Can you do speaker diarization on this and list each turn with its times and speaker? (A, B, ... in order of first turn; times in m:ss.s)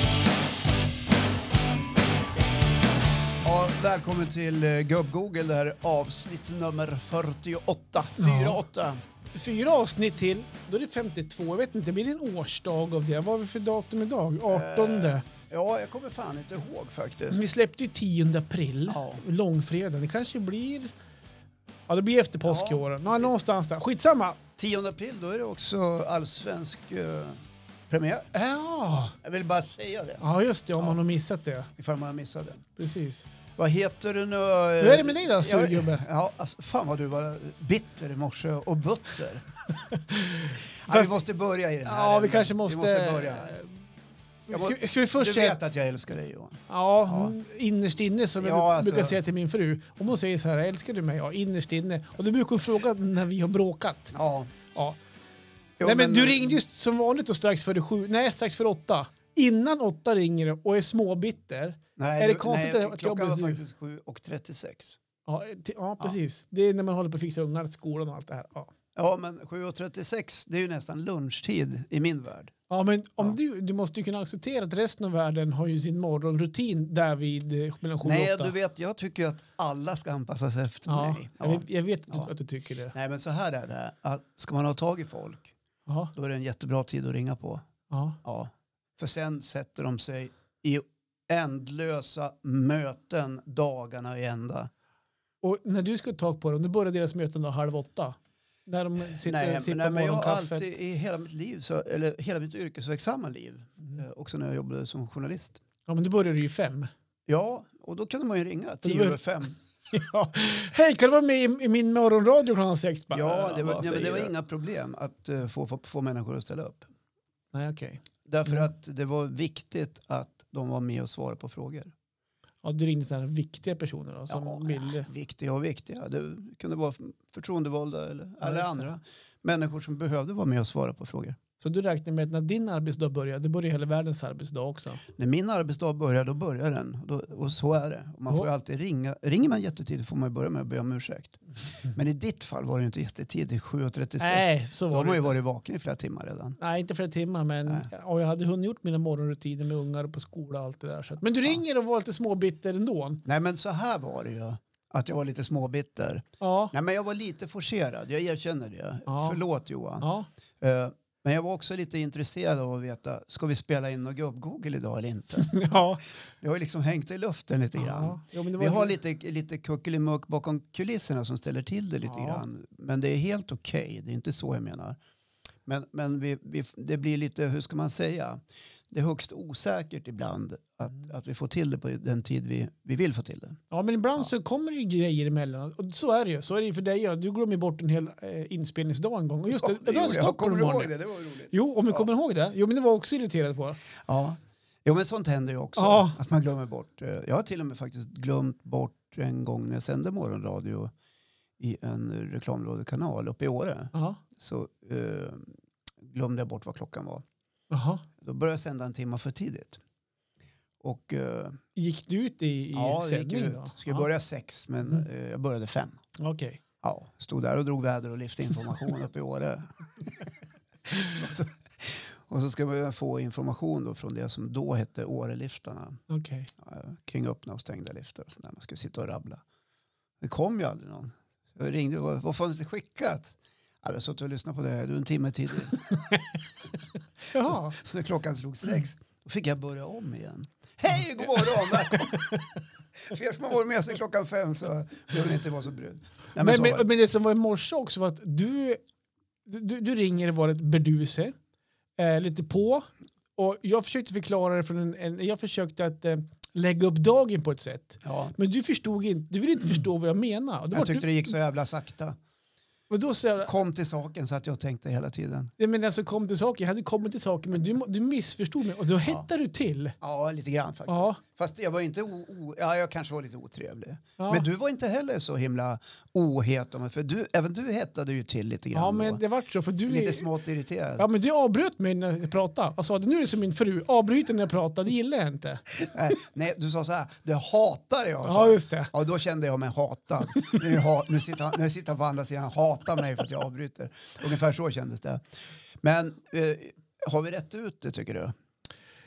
0:03.4-0:09.0 A
0:08.2-0:08.6 B
0:09.3-0:15.2 B
0:14.5-0:17.5 A
0:17.3-0:20.9 B
0:18.9-0:19.2 A
0:21.9-0:24.4 B
0:22.4-0:23.3 A
0:24.6-0:28.3 A
0:28.3-0:29.2 B
0:29.2-0:30.2 A
0:30.2-0:31.7 B
0:31.8-0:32.6 A
0:32.8-0:33.2 B
0:33.6-0:39.5 A
0:34.8-0:36.0 B
0:39.7-0:41.1 B
0:40.8-0:43.6 A
0:41.8-0:43.9 B
0:44.5-0:45.6 B
0:44.5-0:47.3 A
0:46.7-0:54.1 B
0:48.4-0:49.2 A
0:54.1-0:54.5 A
0:54.7-0:55.0 B
0:55.8-0:56.6 A
0:55.8-1:03.6 B
1:02.0-1:05.0 A
1:05.2-1:08.7 B
1:08.9-1:12.5 A
1:12.7-1:18.5 B
1:18.0-1:22.3 A
1:20.9-1:22.9 B
1:22.9-1:25.6 A
1:25.9-1:26.1 B
1:26.1-1:27.6 A
1:27.9-1:28.2 B
1:28.2-1:34.7 A
1:35.4-1:40.7 B
1:39.2-1:45.6 A
1:45.9-1:46.9 B
1:47.3-1:49.6 A
1:48.8-1:49.2 B
1:49.9-1:54.3 B
1:53.1-1:56.9 A
1:57.5-1:58.7 B
1:58.2-2:01.9 A
2:02.6-2:05.1 B
2:04.3-2:11.4 A
2:08.4-2:08.8 B
2:11.6-2:15.0 B
2:15.1-2:21.4 A
2:21.9-2:26.6 A
2:24.2-2:25.4 B
2:26.6-2:33.2 B
2:33.2-2:40.1 A
2:36.4-2:36.7 B
2:39.1-2:39.4 B
2:40.0-2:40.3 B
2:40.6-2:45.6 A
2:45.4-2:46.0 B
2:46.4-2:55.0 A
2:47.8-2:49.0 B
2:52.0-2:52.4 B
2:55.6-3:03.6 A
3:03.7-3:10.9 B
3:09.5-3:12.0 A
3:11.5-3:13.8 B
3:14.0-3:20.9 A
3:15.8-3:16.2 B
3:21.6-3:25.5 A
3:23.9-3:24.2 B
3:26.1-3:27.2 A
3:27.7-3:28.0 B
3:28.2-3:29.8 A
3:30.8-3:31.6 A
3:31.8-3:34.1 B
3:32.7-3:36.0 A
3:36.2-3:36.6 B
3:36.8-3:40.2 A
3:41.0-3:46.0 A
3:46.1-3:46.5 B
3:46.6-3:49.4 A
3:50.2-3:56.2 A
3:57.3-4:06.8 A
3:57.3-3:57.8 B
4:01.2-4:02.4 B
4:06.4-4:08.8 B
4:09.4-4:11.3 B
4:12.0-4:21.3 B
4:18.0-4:18.3 A
4:20.7-4:22.2 A
4:22.9-4:23.5 B
4:23.4-4:25.5 A
4:25.6-4:30.0 B
4:30.0-4:39.2 A
4:30.9-4:31.2 B
4:34.2-4:34.4 B
4:38.7-4:40.2 B
4:39.9-4:41.0 A
4:41.0-4:45.6 B
4:45.8-4:55.2 A
4:48.2-4:48.9 B
4:55.8-4:58.3 A